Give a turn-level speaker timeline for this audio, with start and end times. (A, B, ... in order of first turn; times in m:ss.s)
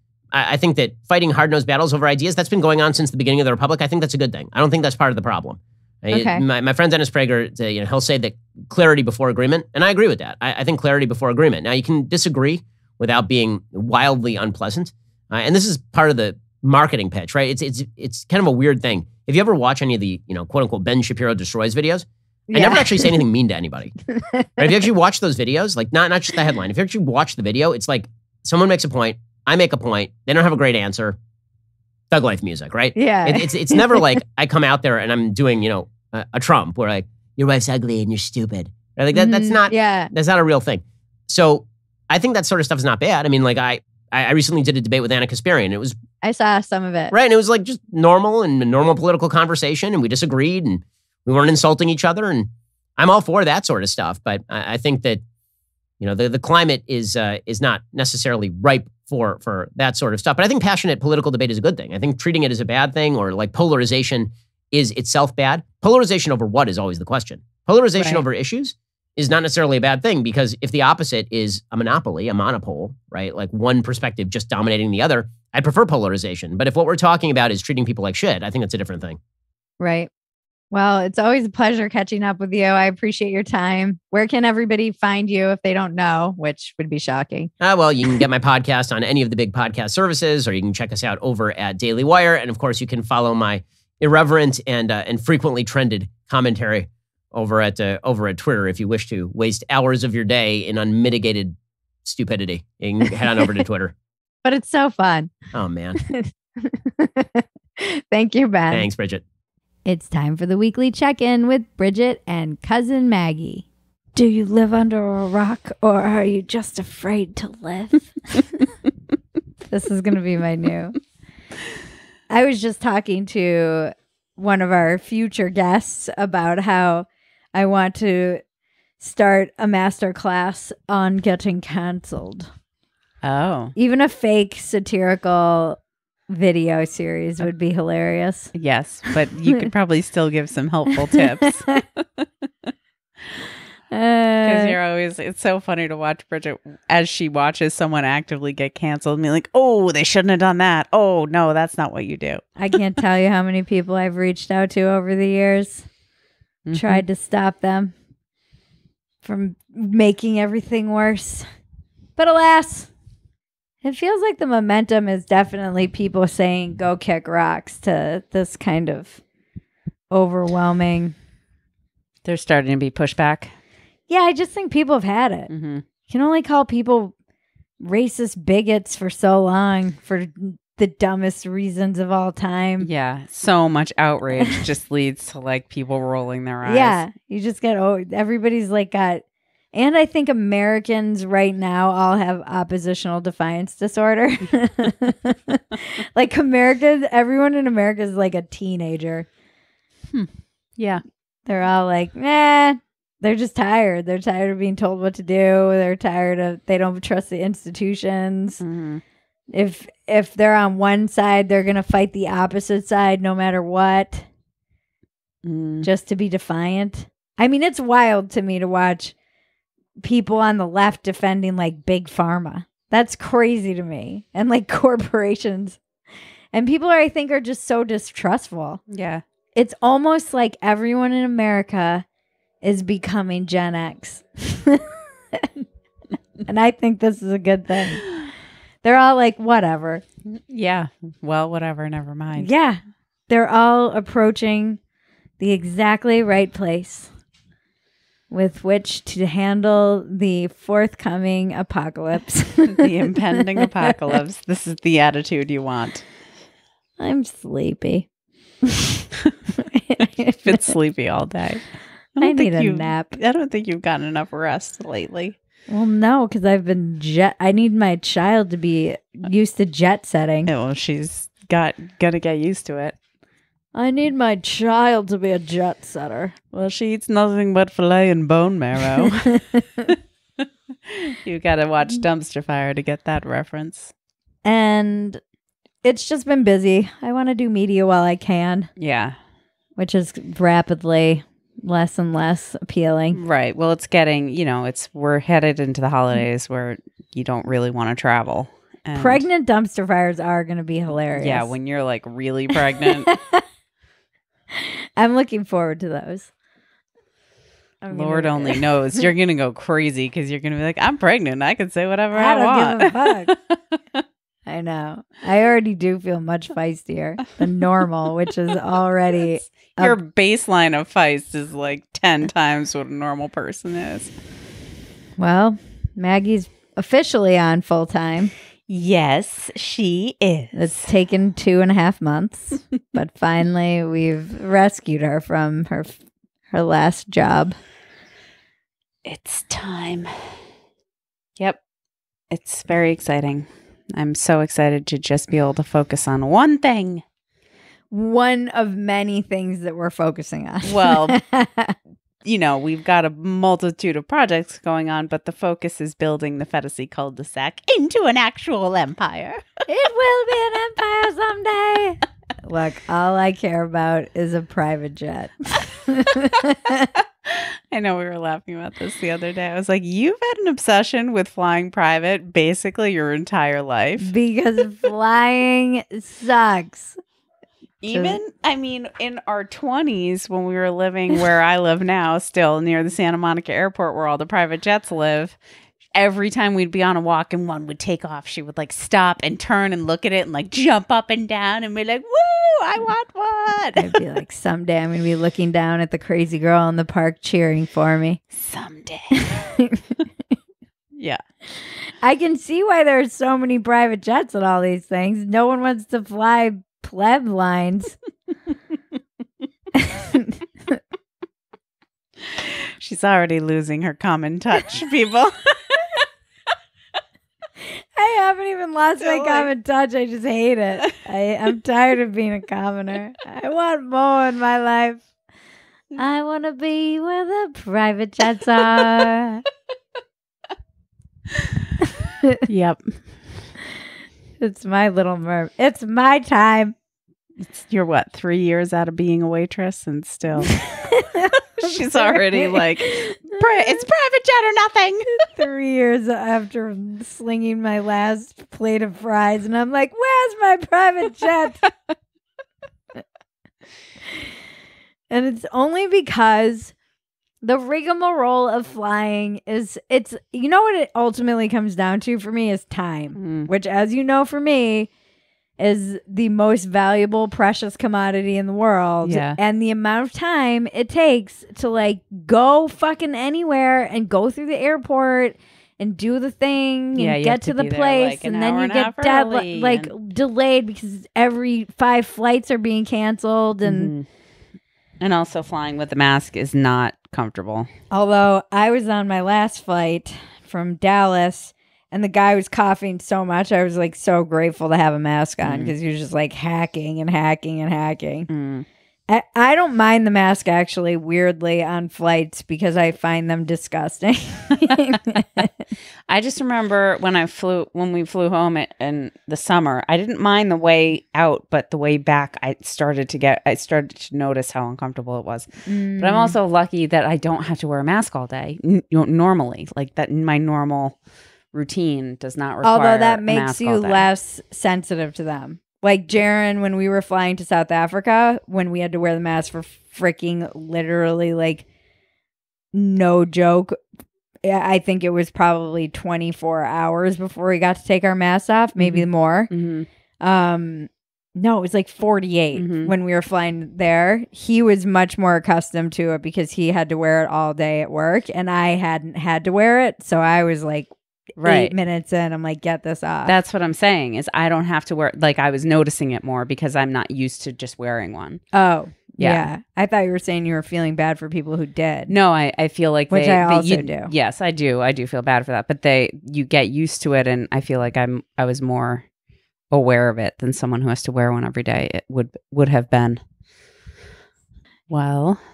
0:00.3-0:24.0 A
0:06.1-0:06.4 B
0:22.5-0:23.1 B
0:24.2-0:24.6 B
0:24.6-0:31.2 A
0:32.1-0:46.0 A
0:33.0-0:34.1 B
0:39.1-0:40.1 B
0:46.2-0:47.1 B
0:47.1-0:55.2 A
0:56.0-1:19.2 A
1:08.0-1:08.2 B
1:19.8-1:20.1 B
1:20.7-1:27.5 B
1:27.6-1:43.9 A
1:44.4-1:45.4 B
1:45.5-1:46.0 A
1:46.0-1:48.9 B
1:48.7-1:49.2 A
1:49.9-1:58.4 B
1:59.7-2:01.0 B
2:02.3-2:08.4 B
2:09.0-2:12.5 B
2:13.2-2:13.7 C
2:13.8-2:18.5 B
2:18.5-2:21.8 C
2:23.9-2:24.8 B
2:24.4-2:32.6 C
2:32.6-2:35.9 B
2:36.7-2:37.0 C
2:36.7-2:37.9 B
2:39.2-2:41.5 B
2:42.2-2:42.9 B
2:43.8-2:49.2 B
2:50.1-2:51.1 B
2:52.2-2:53.5 C
2:54.1-2:55.5 B
2:55.5-2:55.8 C
2:56.1-2:57.1 B
2:57.8-3:02.9 B
3:02.8-3:07.0 C
3:04.4-3:04.6 B
3:06.6-3:15.6 B
3:16.2-3:19.3 B
3:20.1-3:21.0 C
3:21.5-3:28.6 B
3:28.6-3:29.0 C
3:29.5-3:34.3 B
3:35.4-3:35.9 C
3:35.8-3:39.1 B
3:40.0-3:45.8 B
3:46.5-3:48.8 B
3:48.9-3:49.2 C
3:49.6-3:52.0 B
3:52.6-3:54.8 B
3:56.5-3:58.0 B
3:58.8-4:00.0 B
4:00.3-4:02.5 C
4:02.4-4:04.8 B
4:05.4-4:07.1 B
4:08.3-4:13.9 B
4:12.8-4:16.1 C
4:17.0-4:18.1 B
4:19.9-4:20.4 B
4:20.4-4:25.4 C
4:22.2-4:23.2 B
4:25.7-4:30.5 B
4:30.5-4:33.0 C
4:33.7-4:36.3 B
4:36.5-4:39.9 C
4:40.9-4:43.9 C
4:44.4-4:45.2 B
4:45.8-4:48.7 B
4:48.8-4:49.2 C
4:49.8-4:53.2 B
4:53.2-4:59.3 C
4:59.0-5:01.5 B
5:01.1-5:03.1 C
5:02.8-5:03.4 B
5:05.0-5:06.3 B
5:07.8-5:09.0 B
5:07.9-5:14.0 C
5:12.1-5:13.3 B
5:14.5-5:20.0 B
5:19.7-5:24.1 C
5:25.2-5:28.3 B
5:28.7-5:30.9 C
5:30.5-5:36.0 B
5:36.5-5:37.6 B
5:39.0-5:40.1 C
5:42.3-5:47.0 C
5:47.9-5:51.8 B
5:50.6-5:51.2 C
5:52.2-5:59.4 C
5:59.7-6:06.8 B
6:07.3-6:14.1 C
6:14.0-6:17.0 B
6:17.8-6:25.4 C
6:17.9-6:18.2 B
6:25.9-6:34.0 C
6:33.8-6:38.2 B
6:38.3-6:39.4 C
6:39.4-6:39.8 B
6:42.0-6:48.0 B
6:52.3-6:55.8 C
6:58.0-7:05.0 B
6:59.0-6:59.5 C
7:06.0-7:09.4 B
7:12.5-7:13.3 C
7:14.4-7:16.7 B
7:17.4-7:20.7 C
7:20.8-7:23.8 B
7:21.6-7:25.3 C
7:25.1-7:31.7 B
7:35.1-7:36.7 B
7:37.4-7:44.9 B
7:43.2-7:43.5 C
7:45.6-8:03.9 B
7:49.0-7:49.4 C
7:57.0-7:59.9 C
8:03.6-8:04.1 C
8:05.0-8:07.7 C
8:07.9-8:18.3 B
8:15.4-8:15.8 C
8:18.3-8:18.7 C
8:19.1-8:25.0 B
8:26.1-8:41.0 C
8:35.7-8:36.4 B
8:41.5-8:44.1 C
8:42.6-8:51.6 B
8:52.7-8:53.8 B
8:54.4-8:59.5 B
8:58.8-8:59.9 C
9:00.2-9:13.3 B
9:02.6-9:02.9 C
9:11.4-9:11.8 C
9:13.3-9:18.4 C
9:18.5-9:22.1 B
9:19.2-9:19.5 C
9:22.1-9:29.0 C
9:23.1-9:24.1 B
9:29.7-9:33.2 C
9:34.9-9:35.4 C